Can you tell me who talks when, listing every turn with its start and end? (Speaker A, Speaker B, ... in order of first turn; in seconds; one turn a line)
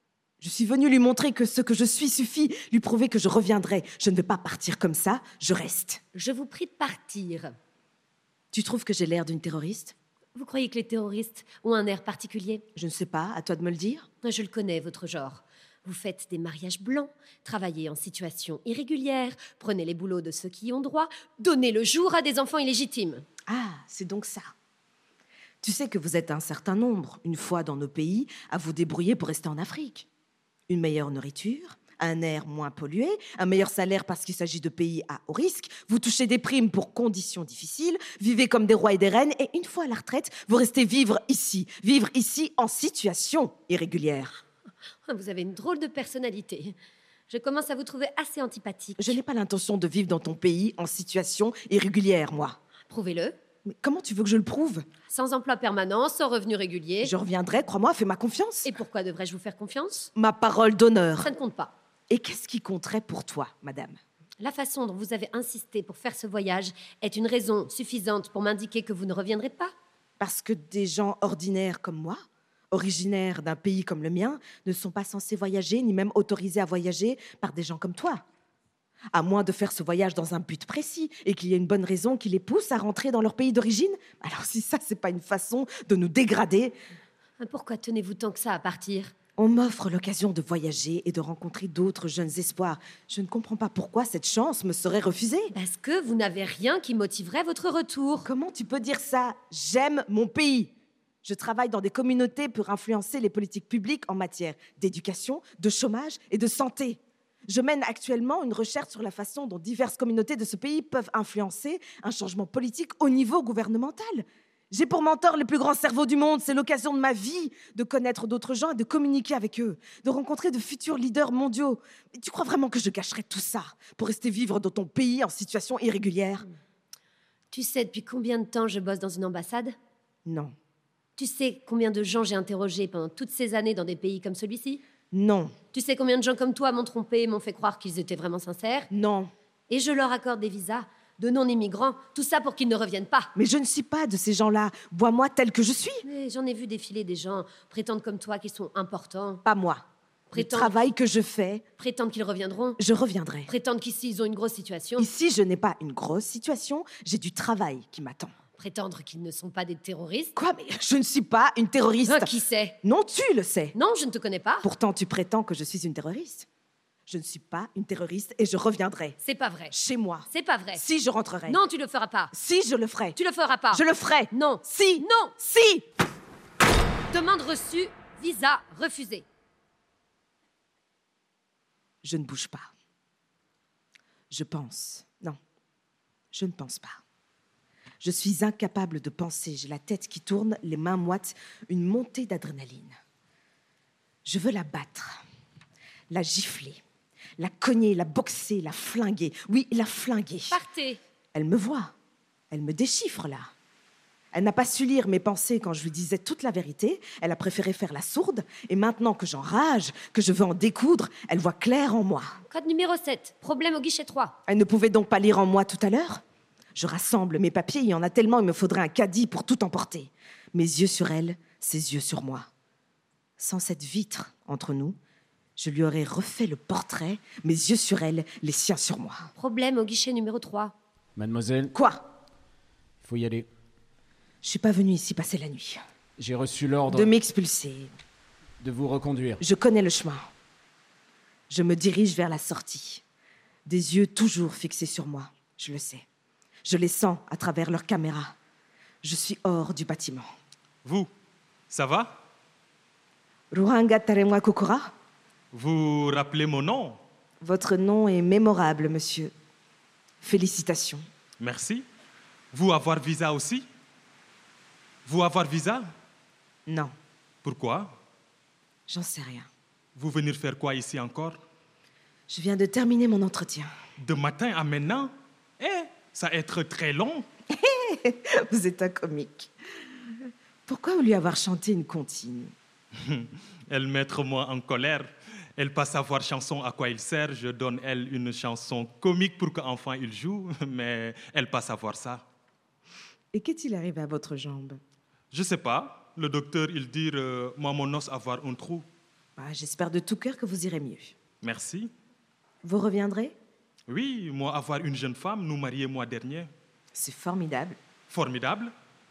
Speaker A: 0.4-6.0
Speaker B: 6.1-7.5
Speaker A: 8.5-9.9
Speaker B: 10.3-12.6
Speaker A: 12.8-14.1
Speaker B: 14.2-23.3
Speaker A: 23.5-24.5
Speaker A: 25.6-30.1
Speaker A: 30.7-44.4
Speaker B: 45.1-46.8
Speaker B: 47.3-49.2
Speaker A: 49.0-52.6
Speaker B: 52.9-53.4
Speaker A: 53.7-54.9
Speaker B: 55.1-57.1
Speaker A: 57.0-58.7
Speaker B: 58.6-60.1
Speaker A: 60.2-61.3
Speaker B: 61.2-61.7
Speaker A: 62.1-64.0
Speaker B: 64.4-69.7
Speaker A: 70.2-78.2
Speaker A: 79.1-86.8
Speaker B: 87.4-89.1
Speaker A: 89.4-95.5
Speaker B: 95.5-98.3
Speaker A: 98.2-100.7
Speaker A: 101.2-126.5
Speaker B: 127.5-129.8
Speaker A: 130.3-130.5
Speaker B: 131.2-134.8
Speaker A: 135.1-135.6
Speaker B: 135.7-138.9
Speaker A: 138.9-139.3
Speaker B: 139.7-143.3
Speaker A: 143.4-146.1
Speaker B: 146.1-149.4
Speaker A: 149.4-151.6
Speaker B: 150.3-150.8
Speaker B: 151.8-152.8
Speaker A: 152.8-153.5
Speaker B: 153.5-155.1
Speaker A: 155.0-158.3
Speaker B: 158.6-160.3
Speaker A: 160.4-163.8
Speaker B: 162.0-162.8
Speaker B: 163.7-164.7
Speaker A: 164.6-166.5
Speaker A: 167.1-169.2
Speaker B: 169.2-169.7
Speaker A: 169.7-171.6
Speaker B: 170.3-170.8
Speaker B: 171.5-172.3
Speaker A: 172.3-173.2
Speaker B: 173.2-175.3
Speaker A: 173.7-175.8
Speaker B: 177.1-179.3
Speaker A: 182.0-182.7
Speaker A: 184.3-185.4
Speaker A: 186.3-187.0
Speaker A: 188.0-192.9
Speaker A: 194.2-195.2
Speaker A: 196.1-196.8
Speaker A: 197.4-200.6
Speaker B: 200.5-201.0
Speaker A: 201.3-201.9
Speaker A: 202.5-203.5
Speaker A: 204.3-212.4
Speaker B: 212.4-214.4
Speaker A: 214.5-216.2
Speaker A: 216.8-222.5
Speaker A: 223.4-225.0
Speaker A: 225.6-229.3
Speaker B: 229.4-230.8
Speaker C: 231.2-231.7
Speaker A: 231.7-232.1
Speaker C: 233.0-233.5
Speaker A: 234.4-235.8
Speaker C: 236.2-237.2
Speaker A: 236.9-237.9
Speaker C: 238.6-239.4
Speaker A: 239.4-240.3
Speaker A: 241.5-243.0
Speaker A: 243.7-246.1
Speaker A: 246.7-248.3
Speaker A: 249.0-250.3
Speaker D: 250.8-251.1
Speaker D: 251.7-252.2
Speaker A: 253.5-254.9
Speaker D: 255.5-257.0
Speaker A: 257.4-259.3
Speaker A: 260.2-261.1
Speaker D: 261.4-261.9
Speaker D: 262.5-263.6
Speaker D: 265.1-265.9
Speaker A: 266.7-266.9
Speaker D: 267.4-268.0
Speaker A: 268.9-269.5
Speaker D: 269.9-271.4
Speaker A: 272.3-273.7
Speaker D: 274.0-277.3
Speaker A: 277.5-279.5
Speaker A: 280.7-282.5
Speaker D: 283.0-292.2
Speaker A: 293.3-294.8
Speaker D: 295.3-298.9
Speaker A: 299.4-301.1
Speaker D: 301.4-301.9
Speaker A: 302.6-303.4
Speaker D: 303.9-306.5
Speaker A: 306.9-307.8
Speaker D: 308.1-308.7